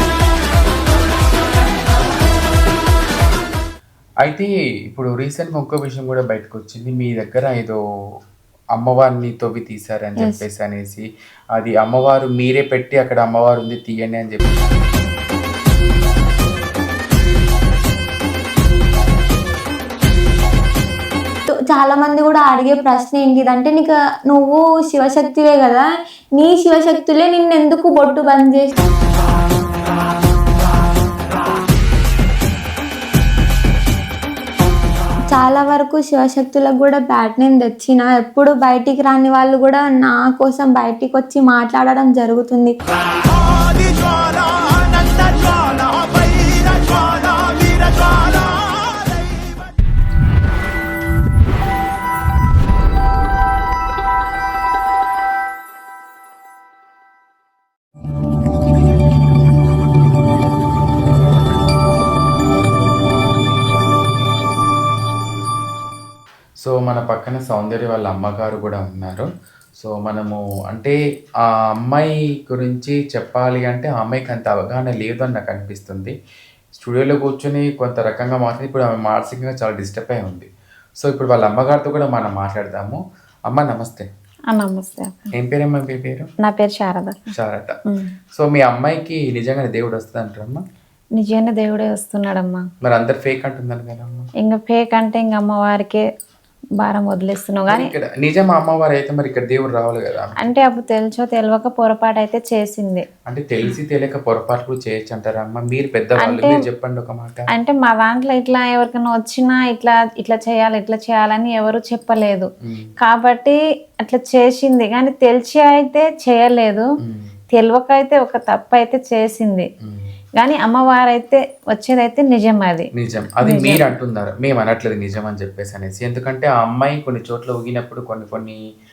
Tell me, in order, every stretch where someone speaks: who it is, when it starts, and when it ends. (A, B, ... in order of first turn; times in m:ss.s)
0:04.2-0:07.8 A
0:08.8-0:11.0 A
0:11.6-0:14.6 A
0:21.5-0:25.8 B
0:26.4-0:28.8 B
0:35.3-0:42.7 B
1:06.6-1:09.3 A
1:09.8-1:16.1 A
1:16.8-1:20.5 A
1:21.0-1:24.1 A
1:24.5-1:25.2 C
1:25.3-1:26.3 A
1:26.4-1:27.2 C
1:27.3-1:27.8 A
1:28.4-1:30.6 A
1:31.2-1:32.6 C
1:32.8-1:34.3 A
1:34.4-1:36.0 C
1:36.8-1:37.9 C
1:37.7-1:40.4 A
1:40.4-1:43.0 C
1:43.3-1:47.4 A
1:46.2-1:46.6 C
1:47.5-1:52.5 C
1:52.6-1:52.9 A
1:53.0-1:56.9 C
1:57.0-1:57.3 A
1:57.5-1:59.7 C
2:00.4-2:02.9 C
2:03.0-2:08.6 A
2:03.4-2:03.8 C